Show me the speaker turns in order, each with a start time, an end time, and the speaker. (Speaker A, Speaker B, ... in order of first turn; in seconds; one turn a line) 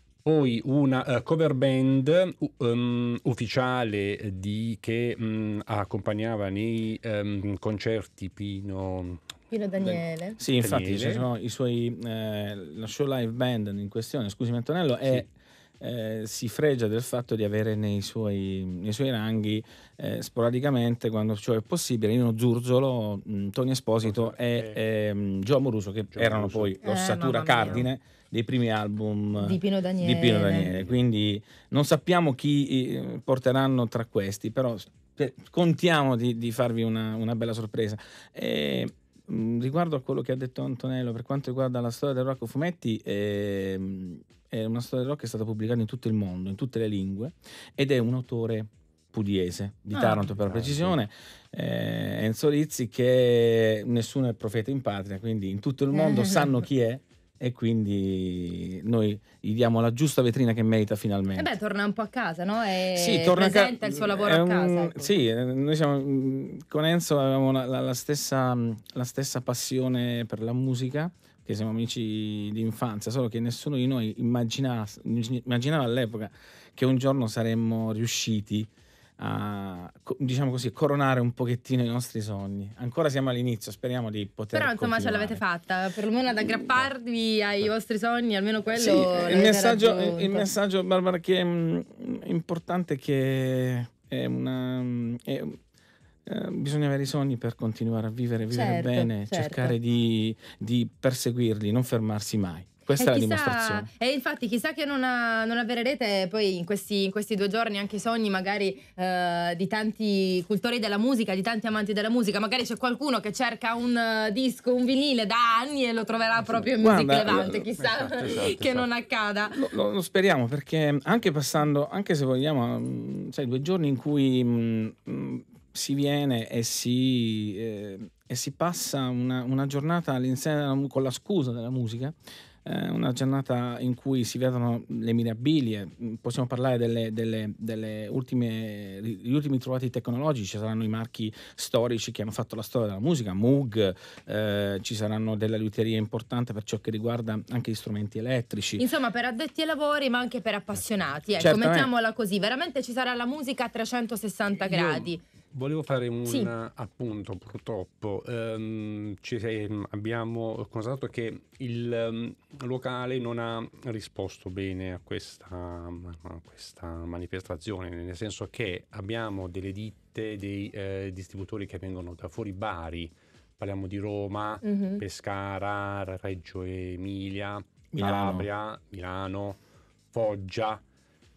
Speaker A: 0.2-9.2
Speaker B: 9.5-10.4
Speaker C: 9.8-61.5
Speaker A: 10.6-11.2
Speaker A: 24.0-24.8
Speaker A: 26.1-26.7
Speaker B: 26.8-27.9
Speaker B: 29.4-30.7
Speaker B: 49.9-50.2
Speaker A: 50.2-51.0
Speaker B: 55.9-56.6
Speaker B: 61.3-65.1
Speaker C: 62.9-85.4
Speaker B: 84.5-90.5
Speaker C: 88.7-95.6
Speaker C: 96.2-103.9
Speaker B: 98.5-99.8
Speaker B: 103.0-119.7
Speaker C: 116.8-117.7
Speaker A: 117.8-118.9
Speaker C: 119.5-148.8
Speaker B: 148.8-155.2
Speaker C: 151.4-151.9
Speaker A: 154.6-179.6
Speaker B: 156.2-156.5
Speaker B: 174.6-175.0
Speaker C: 177.9-178.5
Speaker A: 180.1-180.8